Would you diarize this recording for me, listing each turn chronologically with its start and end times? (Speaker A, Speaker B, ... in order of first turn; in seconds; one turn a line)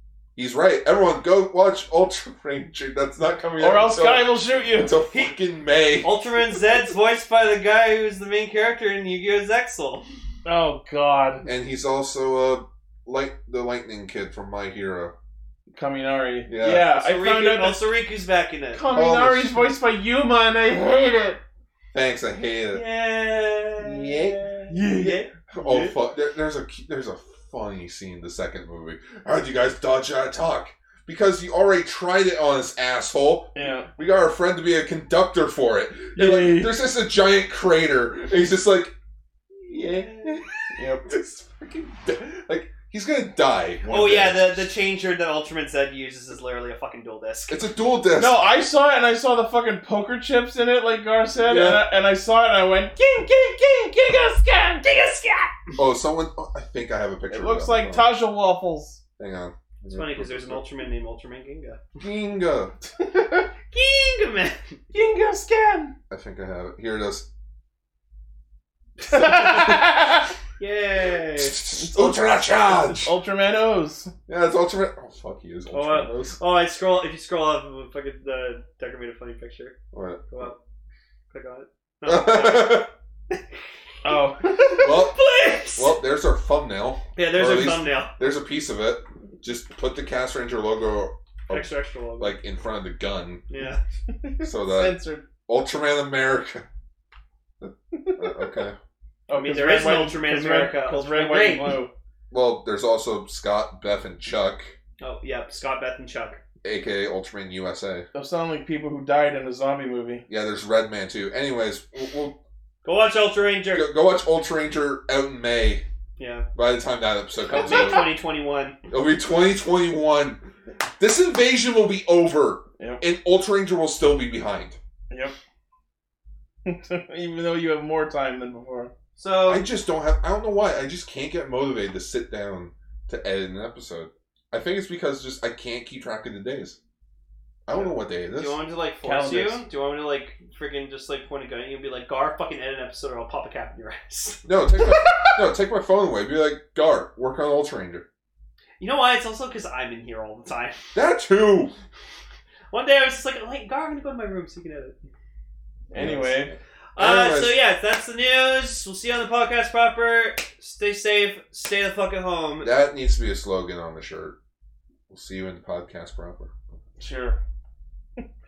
Speaker A: 0.3-6.3
Speaker B: 3.6-4.9
Speaker C: 5.1-5.3
Speaker C: 6.0-10.0
Speaker B: 10.4-11.4
Speaker A: 11.4-15.1
Speaker B: 15.7-17.9
Speaker A: 16.5-16.9
Speaker C: 16.9-18.8
Speaker B: 18.7-21.4
Speaker A: 18.9-19.7
Speaker A: 21.9-22.8
Speaker C: 22.7-25.4
Speaker A: 23.8-24.5
Speaker B: 24.7-25.9
Speaker A: 25.5-38.9
Speaker B: 33.5-33.9
Speaker B: 36.1-36.8
Speaker A: 39.5-44.7
Speaker C: 39.8-40.5
Speaker B: 40.7-41.0
Speaker C: 43.9-47.6
Speaker A: 47.5-48.4
Speaker B: 48.2-55.5
Speaker A: 51.4-51.8
Speaker A: 55.8-58.1
Speaker B: 57.3-59.0
Speaker A: 59.2-60.7
Speaker C: 59.8-62.0
Speaker A: 62.0-62.8
Speaker B: 63.0-63.5
Speaker C: 63.7-64.8
Speaker B: 64.9-65.9
Speaker A: 66.1-67.3
Speaker B: 69.1-70.3
Speaker A: 69.2-69.8
Speaker C: 69.2-69.8
Speaker C: 70.6-71.6
Speaker A: 71.1-73.1
Speaker B: 71.7-74.1
Speaker A: 74.3-76.4
Speaker C: 75.7-79.8
Speaker A: 79.9-80.4
Speaker C: 80.3-80.6
Speaker C: 81.3-83.4
Speaker A: 82.0-82.9
Speaker B: 84.0-84.9
Speaker C: 84.1-86.0
Speaker A: 84.8-93.4
Speaker C: 87.2-88.2
Speaker C: 91.5-92.4
Speaker C: 93.5-93.8
Speaker B: 94.2-95.2
Speaker A: 94.4-96.7
Speaker A: 97.6-98.8
Speaker B: 97.9-98.5
Speaker B: 99.3-101.9
Speaker C: 99.3-101.9
Speaker A: 102.3-104.8
Speaker C: 105.0-106.4
Speaker A: 106.6-108.1
Speaker B: 108.1-110.2
Speaker A: 110.3-112.4
Speaker C: 112.8-113.9
Speaker A: 113.7-115.8
Speaker C: 116.2-116.5
Speaker A: 116.5-118.1
Speaker C: 117.5-118.8
Speaker A: 118.9-120.5
Speaker A: 121.0-124.8
Speaker B: 125.1-125.3
Speaker B: 126.6-128.9
Speaker C: 129.2-129.6
Speaker A: 129.5-136.8
Speaker A: 137.7-138.6
Speaker C: 138.3-145.4
Speaker B: 139.0-139.6
Speaker A: 144.4-148.1
Speaker C: 148.8-150.8
Speaker A: 150.9-151.7
Speaker C: 152.7-155.0
Speaker B: 155.9-156.5
Speaker A: 155.9-157.6
Speaker C: 156.9-162.7
Speaker A: 162.6-164.4
Speaker A: 165.1-166.5
Speaker B: 167.0-167.4